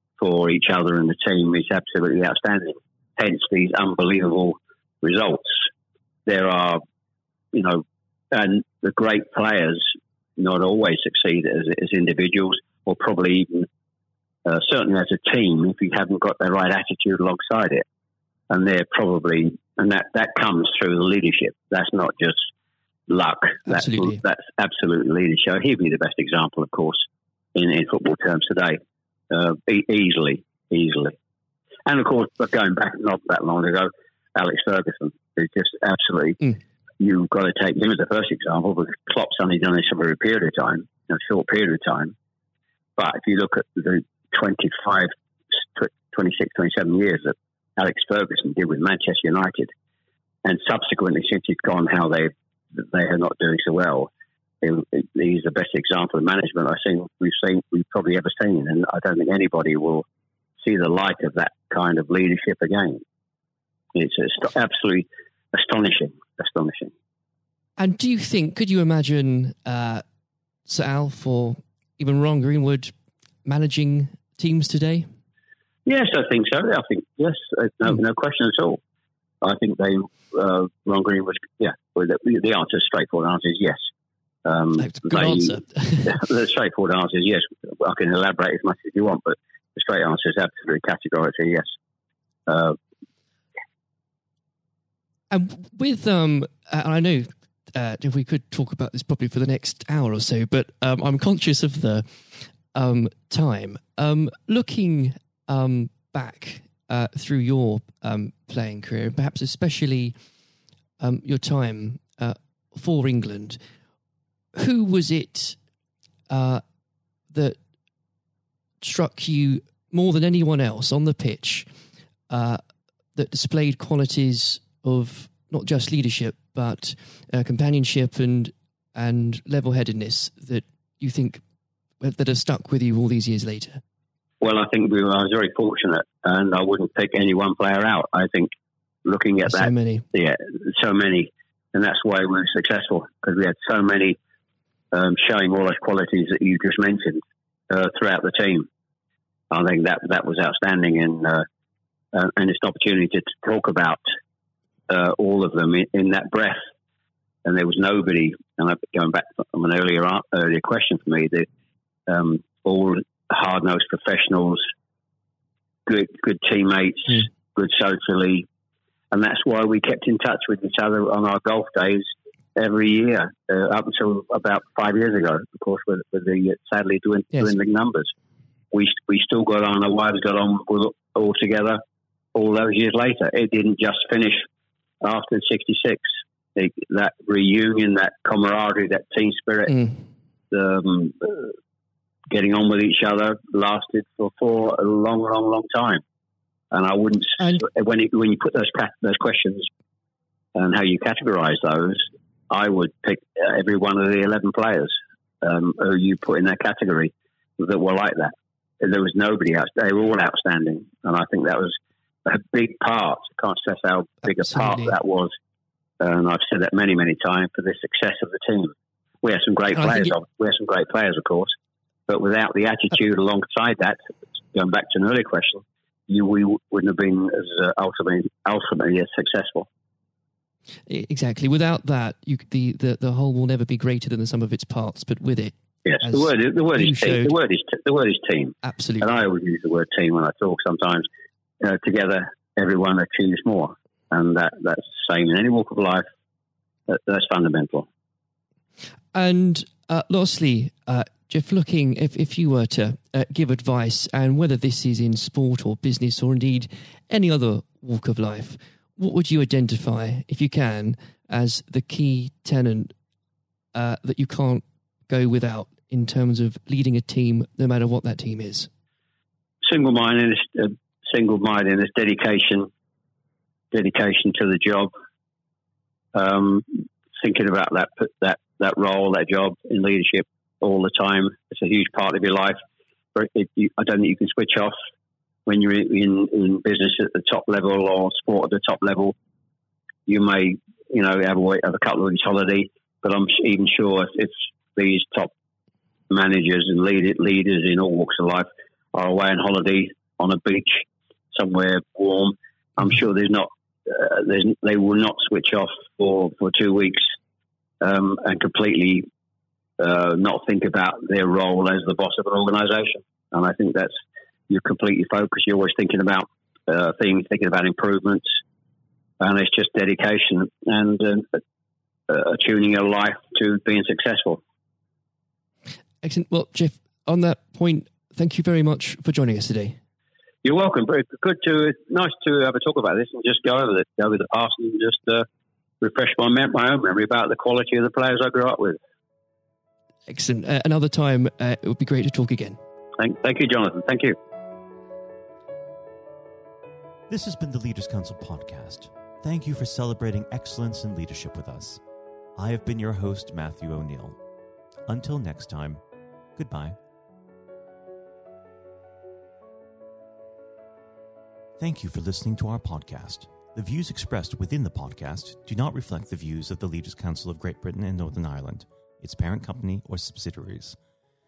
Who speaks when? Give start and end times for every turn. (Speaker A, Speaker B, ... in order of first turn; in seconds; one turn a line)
Speaker A: 0.2-5.6
Speaker A: 6.3-6.8
Speaker A: 7.5-13.7
Speaker A: 14.5-17.8
Speaker A: 18.5-22.5
Speaker A: 23.1-27.0
Speaker B: 23.7-24.2
Speaker A: 27.6-28.8
Speaker A: 29.3-31.1
Speaker A: 31.9-42.1
Speaker A: 43.0-45.1
Speaker A: 45.7-49.7
Speaker A: 50.5-54.1
Speaker A: 54.6-60.0
Speaker A: 60.6-63.0
Speaker A: 64.0-66.9
Speaker B: 67.8-70.0
Speaker B: 70.7-72.9
Speaker B: 73.5-75.1
Speaker A: 75.9-78.8
Speaker A: 79.4-83.8
Speaker A: 84.5-91.7
Speaker B: 84.8-86.2
Speaker A: 92.5-92.8
Speaker B: 95.3-110.1
Speaker B: 111.0-113.6
Speaker B: 114.5-115.6
Speaker B: 116.3-116.6
Speaker B: 117.3-117.6
Speaker B: 118.8-121.7
Speaker B: 122.3-122.6
Speaker B: 123.2-131.4
Speaker B: 132.0-133.8
Speaker A: 134.4-138.5
Speaker A: 139.1-144.2
Speaker B: 139.4-140.1
Speaker A: 144.9-148.7
Speaker A: 149.5-151.4
Speaker A: 152.1-154.0
Speaker A: 154.9-156.6
Speaker A: 157.4-161.5
Speaker A: 162.1-164.6
Speaker A: 165.9-168.5
Speaker A: 169.1-178.1
Speaker A: 178.7-181.8
Speaker A: 182.3-184.4
Speaker A: 185.0-189.9
Speaker A: 190.5-191.5
Speaker A: 192.3-196.0
Speaker A: 196.7-199.7
Speaker A: 200.6-215.3
Speaker B: 214.3-215.0
Speaker A: 216.0-221.5
Speaker B: 219.8-220.1
Speaker A: 222.1-224.0
Speaker A: 224.5-229.7
Speaker B: 230.9-237.3
Speaker A: 235.8-241.1
Speaker B: 238.6-239.1
Speaker A: 241.6-246.1
Speaker A: 246.9-247.9
Speaker B: 249.1-262.9
Speaker B: 263.7-268.7
Speaker A: 269.6-272.7
Speaker A: 273.7-274.9
Speaker A: 276.1-282.6
Speaker A: 283.1-284.8
Speaker A: 285.5-289.1
Speaker A: 290.1-295.3
Speaker A: 296.1-307.1
Speaker A: 307.8-309.1
Speaker A: 309.8-314.0
Speaker A: 314.5-318.3
Speaker A: 319.2-321.4
Speaker A: 322.1-324.4
Speaker B: 326.0-329.8
Speaker A: 330.4-335.3
Speaker A: 335.8-338.8
Speaker B: 340.1-342.6
Speaker A: 343.0-344.2
Speaker C: 347.1-351.8
Speaker C: 352.4-354.2
Speaker C: 354.9-355.8
Speaker C: 356.4-356.8
Speaker C: 361.6-370.8